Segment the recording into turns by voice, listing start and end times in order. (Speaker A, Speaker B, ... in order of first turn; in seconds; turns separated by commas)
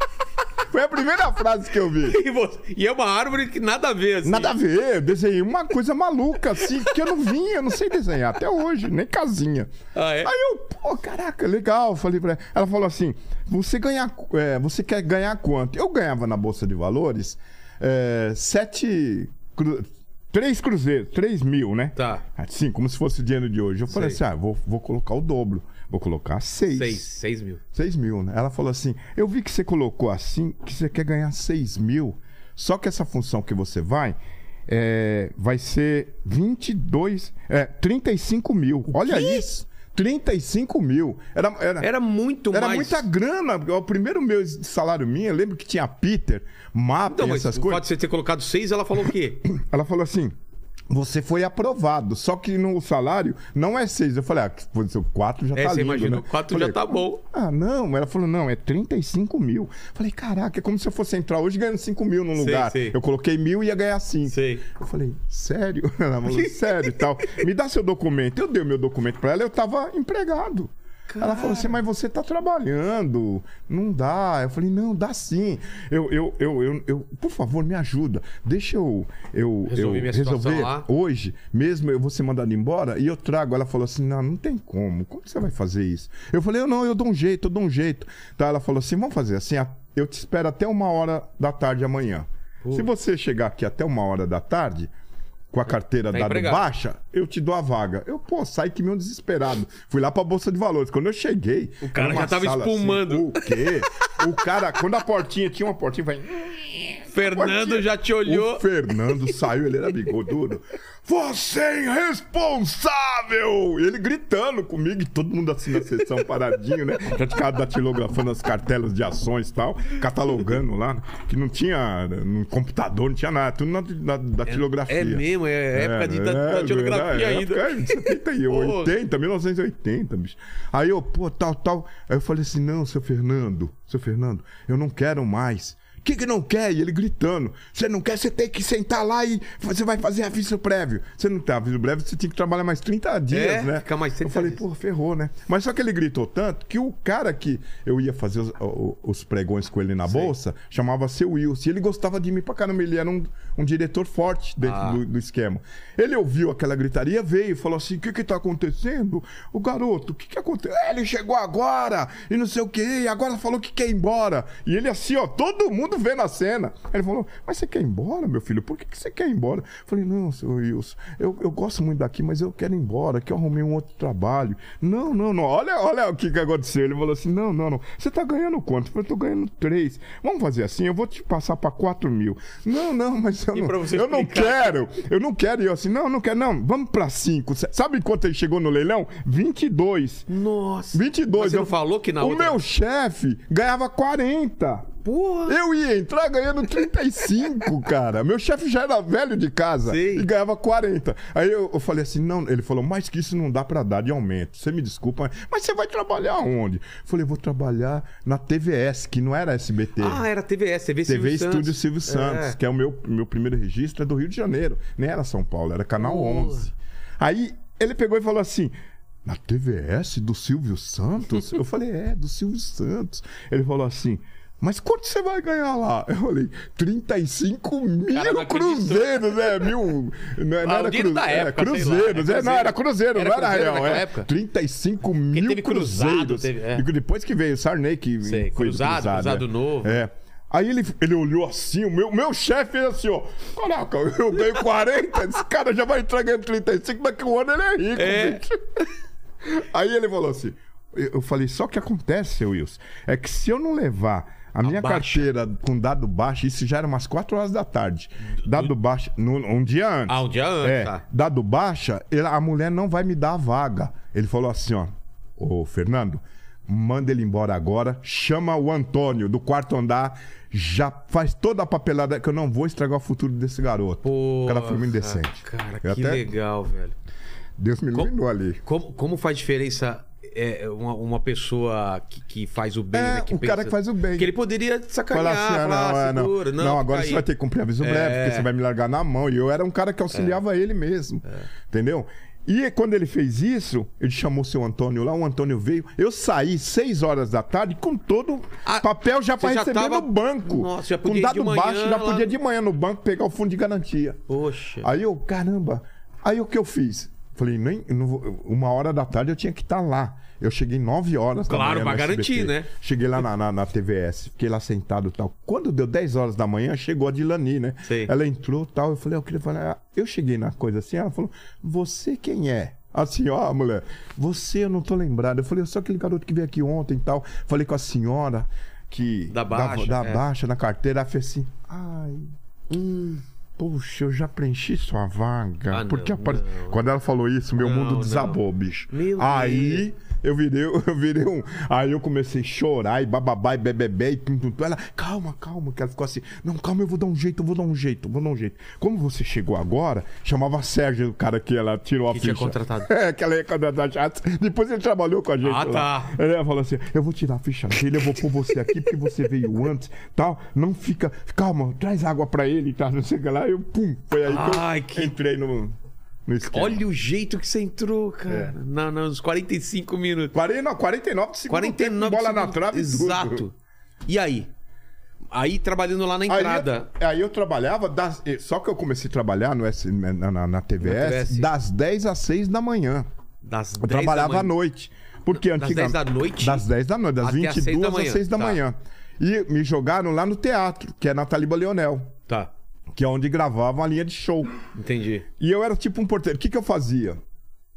Speaker A: 0.7-2.2, Speaker B: 2.0-4.6, Speaker A: 4.2-9.7, Speaker B: 9.9-10.3, Speaker A: 10.2-27.0, Speaker B: 21.9-22.2, Speaker B: 23.9-24.2, Speaker B: 26.7-27.6, Speaker A: 27.7-34.1, Speaker A: 34.7-41.9, Speaker B: 38.9-39.4, Speaker B: 41.8-43.0, Speaker A: 42.5-47.8, Speaker B: 47.1-49.5, Speaker A: 49.4-50.3, Speaker A: 50.9-94.9, Speaker B: 55.5-57.2, Speaker B: 62.4-63.0, Speaker B: 64.3-64.6, Speaker B: 66.3-67.0, Speaker B: 71.1-71.8, Speaker B: 79.7-80.9, Speaker A: 95.5-190.3, Speaker B: 96.1-96.6, Speaker B: 101.8-104.1, Speaker B: 107.1-109.0, Speaker B: 124.5-128.9, Speaker B: 143.3-144.6, Speaker B: 150.1-150.3, Speaker B: 154.6-155.0, Speaker B: 183.5-184.8, Speaker B: 190.3-192.6, Speaker A: 190.9-194.9, Speaker B: 195.0-195.6, Speaker A: 195.5-210.2, Speaker B: 199.9-200.3, Speaker B: 210.0-212.6, Speaker A: 211.1-218.7, Speaker B: 216.0-216.7, Speaker A: 219.2-248.8, Speaker B: 228.1-229.7, Speaker B: 230.6-234.3, Speaker B: 235.3-236.8, Speaker B: 238.2-240.0, Speaker B: 248.0-248.4, Speaker A: 249.4-276.3, Speaker B: 254.6-255.3, Speaker B: 258.3-258.7, Speaker B: 260.1-261.0, Speaker B: 274.0-276.9, Speaker A: 277.6-278.6, Speaker B: 278.6-287.2, Speaker A: 282.9-284.3, Speaker A: 285.1-304.2, Speaker B: 287.8-288.5, Speaker B: 290.1-290.4, Speaker B: 298.6-302.3, Speaker B: 304.3-304.9, Speaker A: 304.8-332.3, Speaker B: 311.5-312.7, Speaker B: 317.9-318.1, Speaker B: 329.3-330.2, Speaker B: 332.7-333.2, Speaker A: 333.6-365.7, Speaker B: 335.7-336.8, Speaker B: 337.6-338.4, Speaker B: 338.9-339.9, Speaker B: 352.1-352.9, Speaker B: 355.4-356.1, Speaker B: 364.2-365.1, Speaker A: 366.2-366.8, Speaker B: 366.4-370.3, Speaker A: 368.3-368.5, Speaker A: 370.3-373.4, Speaker B: 371.5-373.5, Speaker B: 374.1-374.5, Speaker B: 375.3-376.9, Speaker A: 376.3-383.1, Speaker B: 380.8-381.5, Speaker B: 383.4-384.5, Speaker A: 383.8-392.1, Speaker B: 385.4-386.6, Speaker B: 387.2-388.6, Speaker A: 392.9-394.6, Speaker B: 394.7-395.2, Speaker A: 395.4-397.2